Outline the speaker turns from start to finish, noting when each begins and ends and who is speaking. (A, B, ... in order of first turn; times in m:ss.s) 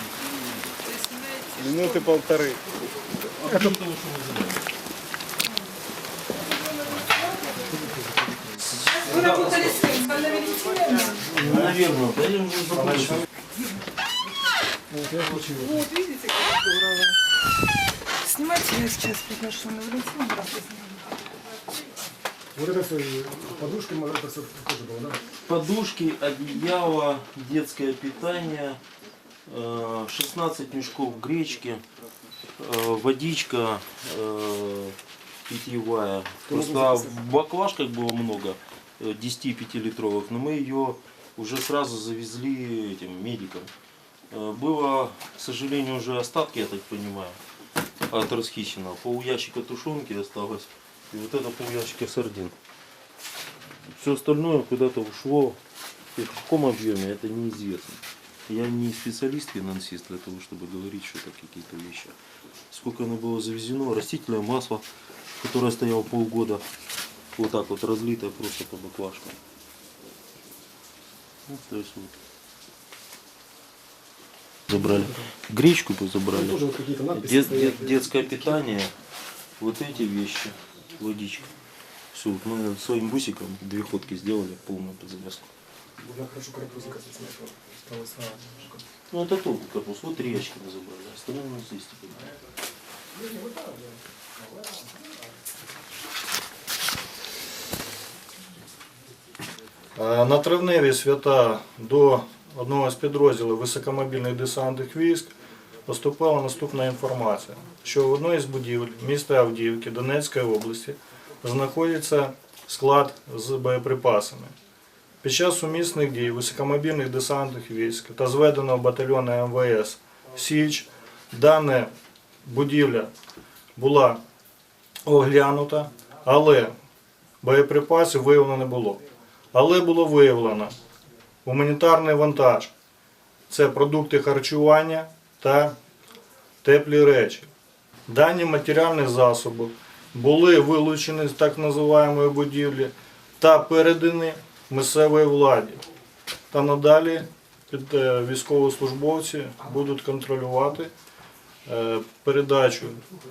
0:00.2-0:00.6 A
0:00.9-0:02.2 B
0:03.2-0:04.7 A
0:07.2-0:07.8 B
0:08.7-0:10.0 A
0:09.0-0:11.3 B
0:11.1-0:13.3 A
0:14.9-0:15.8 C
0:15.5-0:17.2 B
0:18.2-0:21.1 B
0:22.6-0:25.2 C
0:25.5-0:28.8 A
0:29.5-0:31.8 A
0:32.6-0:43.7 A
0:36.5-0:37.2 C
0:44.3-0:47.4 A
0:48.1-0:52.6 A
0:53.9-0:55.6 A
0:56.2-1:02.2 A
1:02.7-1:04.9 A
1:05.4-1:06.6 A
1:07.4-1:09.4 A
1:11.5-1:12.1 A
1:14.7-1:18.9 A
1:14.7-1:15.2 C
1:16.3-1:18.1 C
1:19.6-1:21.5 A
1:22.1-1:25.5 A
1:26.0-1:28.8 C
1:29.1-1:32.3 A
1:40.0-1:45.3 D
1:45.9-1:54.5 D
1:55.2-2:01.9 D
2:02.4-2:03.1 D
2:03.8-2:04.2 D
2:05.1-2:06.7 D
2:07.4-2:09.0 D
2:09.5-2:10.7 D
2:11.4-2:12.7 D
2:13.5-2:15.8 D
2:16.6-2:17.5 D
2:18.1-2:25.8 D
2:26.5-2:30.9 D
2:31.7-2:33.0 D